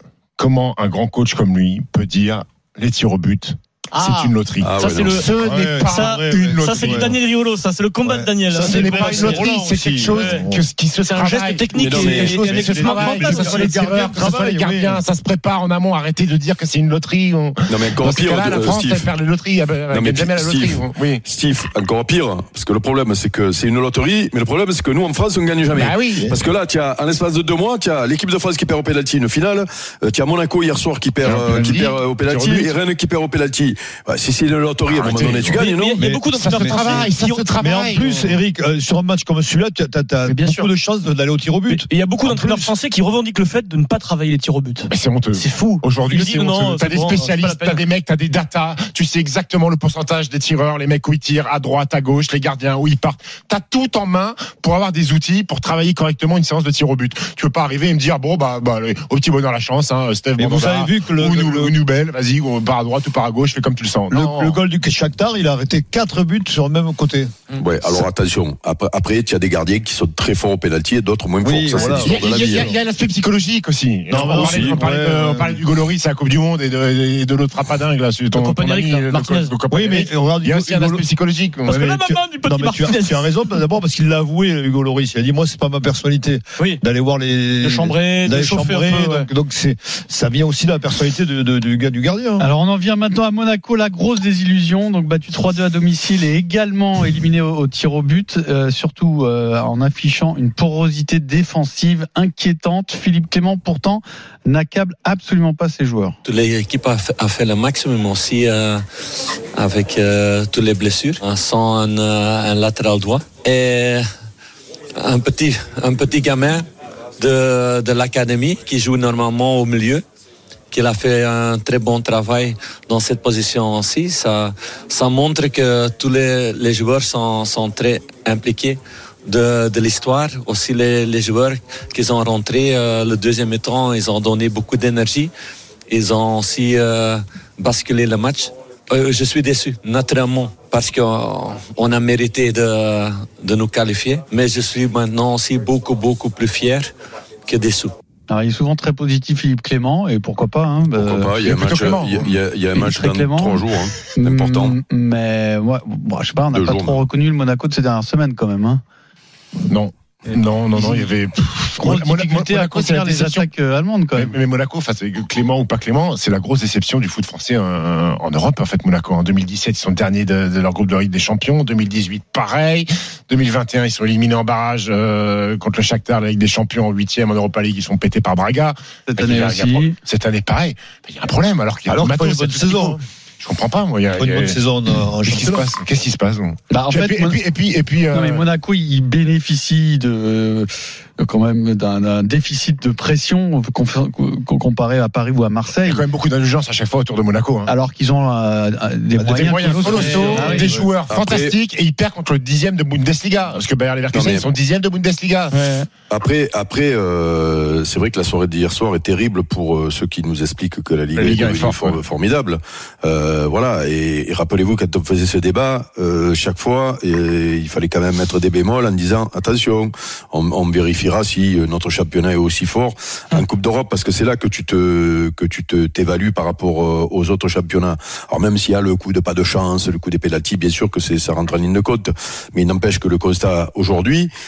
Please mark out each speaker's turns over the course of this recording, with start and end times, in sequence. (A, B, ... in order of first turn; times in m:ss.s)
0:00.4-0:07.2 A
0:04.0-0:04.2 B
0:04.6-0:05.2 C
0:04.7-0:13.7 B
0:05.1-0:07.2 D
0:08.0-0:10.6 D
0:08.5-0:21.2 A
0:11.7-0:12.4 C
0:12.1-0:15.0 D
0:17.7-0:19.1 C
0:19.9-0:36.0 C
0:25.7-0:26.3 A
0:31.2-0:32.8 A
0:34.8-0:35.6 A
0:35.5-0:37.5 B
0:35.9-0:42.7 D
0:36.3-0:38.4 A
0:40.2-0:40.7 B
0:41.7-0:47.8 B
0:44.9-1:04.6 A
1:00.4-1:01.8 D
1:04.1-1:07.3 D
1:07.6-1:12.8 C
1:11.4-1:12.4 D
1:11.7-1:12.5 B
1:12.0-1:21.8 A
1:14.1-1:15.6 D
1:14.4-1:14.8 C
1:18.3-1:19.6 B
1:19.7-1:21.0 D
1:21.6-1:32.5 D
1:21.7-1:23.3 B
1:27.6-1:29.3 B
1:32.4-1:46.2 E
1:46.2-1:48.8 F
1:49.6-1:54.0 F
1:55.0-1:56.6 F
1:57.2-2:00.0 F
2:00.7-2:15.3 F
2:15.9-2:26.9 F
2:27.5-2:27.9 F
2:28.3-2:31.5 E
2:30.9-2:34.8 C
2:31.4-2:32.3 A
2:32.7-2:38.8 E
2:36.5-2:37.0 C
2:39.7-2:43.5 A
2:40.8-2:41.0 E
2:41.8-2:44.3 E
2:44.1-3:04.6 A
2:59.1-3:00.0 E
3:01.9-3:03.0 D
3:04.1-3:05.7 D
3:05.2-3:08.4 A
3:06.7-3:07.4 E
3:08.1-3:16.0 E
3:15.8-3:17.7 A
3:17.7-3:20.6 E
3:19.1-3:20.9 D
3:19.3-3:25.6 A
3:21.1-3:21.6 C
3:24.1-3:24.5 C
3:25.5-3:25.9 B
3:26.1-3:54.3 C
3:31.2-3:32.0 A